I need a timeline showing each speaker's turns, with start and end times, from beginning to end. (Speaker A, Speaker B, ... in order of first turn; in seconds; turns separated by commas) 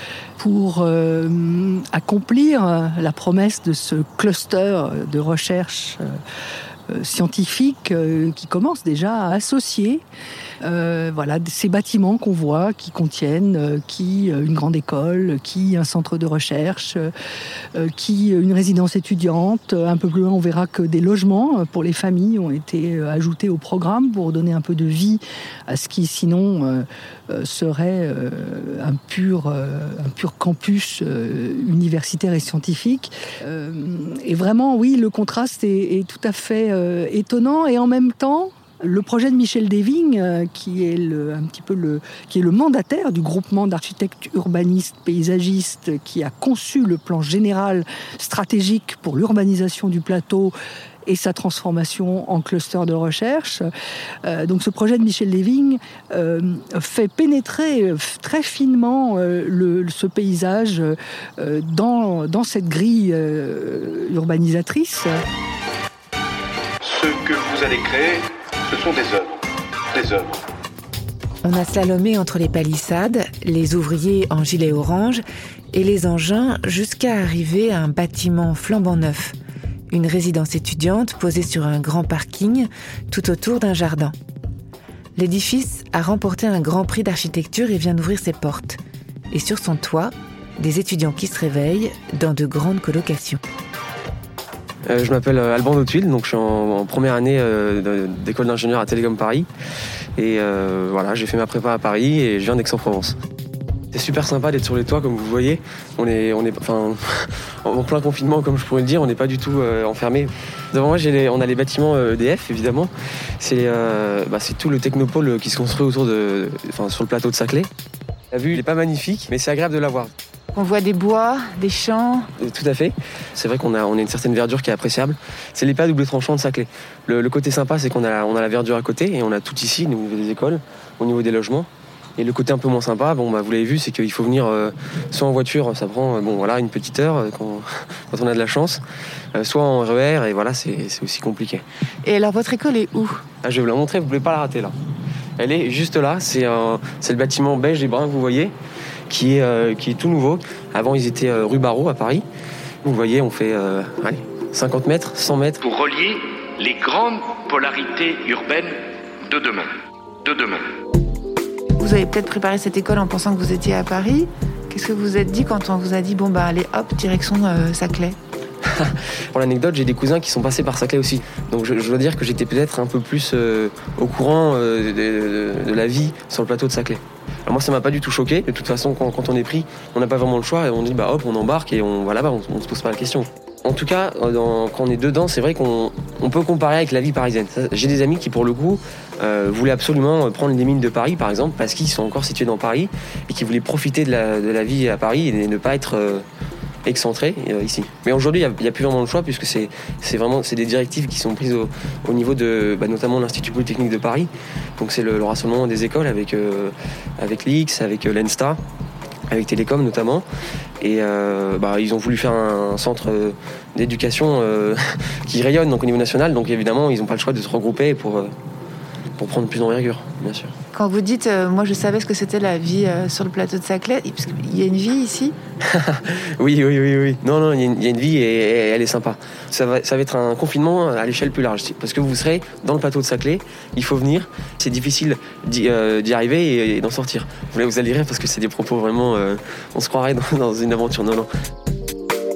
Speaker A: 0.4-6.2, Speaker A: 6.9-10.0, Speaker A: 10.6-17.1, Speaker A: 17.8-50.5, Speaker A: 51.1-53.7, Speaker A: 54.2-65.2, Speaker B: 66.8-70.4, Speaker C: 71.4-79.4, Speaker C: 79.9-84.2, Speaker C: 85.2-88.8, Speaker C: 89.3-93.4, Speaker D: 94.9-99.5, Speaker D: 100.2-103.2, Speaker D: 103.9-117.7, Speaker D: 118.3-120.1, Speaker C: 120.5-122.3, Speaker D: 122.4-138.8, Speaker D: 139.3-141.7, Speaker C: 142.0-143.2, Speaker D: 143.4-144.7, Speaker D: 145.4-148.5, Speaker D: 149.1-152.2, Speaker D: 152.8-155.6, Speaker E: 155.6-159.7, Speaker E: 160.2-160.6, Speaker C: 161.8-168.2, Speaker D: 168.7-196.2, Speaker D: 196.8-208.6, Speaker D: 209.3-210.3, Speaker D: 210.8-218.3, Speaker D: 219.2-220.5, Speaker C: 220.7-225.4, Speaker D: 225.7-241.3